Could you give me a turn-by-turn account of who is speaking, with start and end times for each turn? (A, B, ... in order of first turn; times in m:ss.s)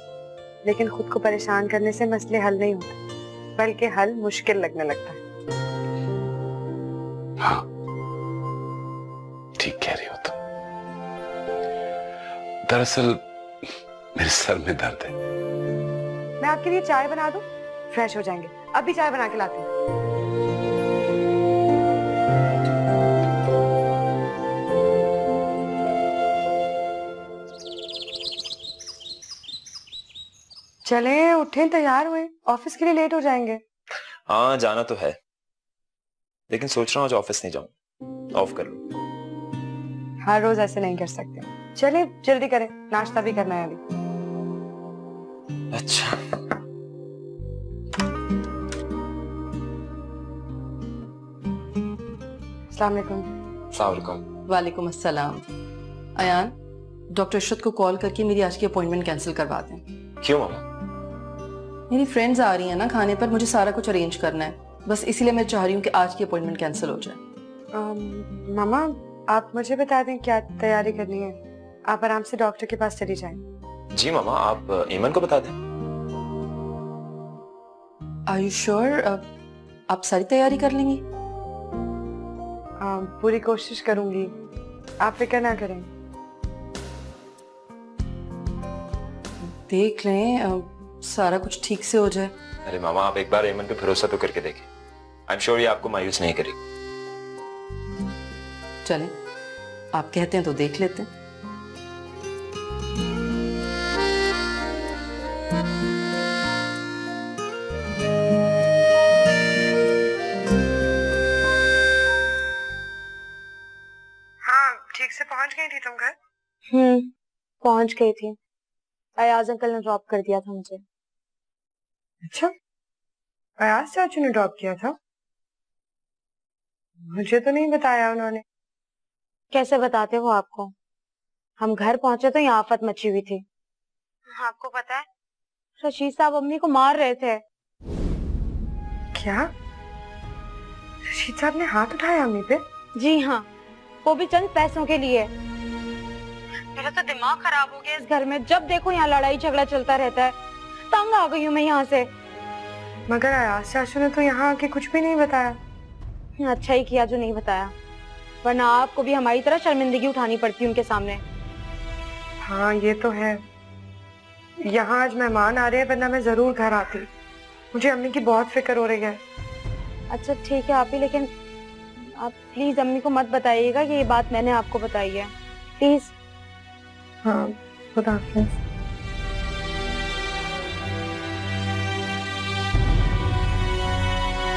0:00.6-0:03.0 A
0:03.6-0:05.2 A
0:09.6-0:10.3 B
0:12.6-0:15.1 B
0:16.4-0:19.7 A
0:30.8-0:33.6 A
0:34.3-0:35.2 C
0:36.5-0:37.7 C
0:38.3-0:38.8 C
0:40.2-0:43.8 A
0:45.7-0:46.2 C
0:52.7-0:53.3 A
0:53.7-0:54.2 C
0:54.5-0:55.4 D
0:56.2-0:56.5 D
0:57.1-0:59.8 D
1:00.2-1:00.6 C
1:01.9-1:07.2 D
1:07.7-1:13.4 A
1:13.9-1:15.6 C
1:18.3-1:19.3 D
1:19.9-1:21.0 D
1:22.8-1:24.3 A
1:25.0-1:25.9 A
1:29.4-1:32.3 D
1:32.6-1:34.7 C
1:35.3-1:36.6 C
1:38.8-1:39.1 D
1:39.9-1:41.1 D
1:54.4-1:56.1 A
1:56.7-1:57.1 E
1:57.6-1:58.4 E
1:59.2-2:00.8 E
2:02.2-2:02.5 A
2:03.6-2:05.0 A
2:07.1-2:08.4 A
2:09.5-2:10.7 E
2:11.6-2:13.4 E
2:14.3-2:15.0 E
2:15.8-2:17.4 E
2:19.1-2:19.5 A
2:21.0-2:22.6 A
2:22.9-2:23.4 E
2:24.0-2:25.3 E
2:26.7-2:30.4 E
2:30.9-2:32.1 E
2:33.1-2:35.6 A
2:36.4-2:37.7 E
2:38.4-2:41.2 E
2:42.4-2:43.4 A
2:44.7-2:47.1 A
2:47.7-2:49.2 A
2:50.1-2:51.3 E
2:52.0-2:56.1 E
2:57.2-2:58.5 A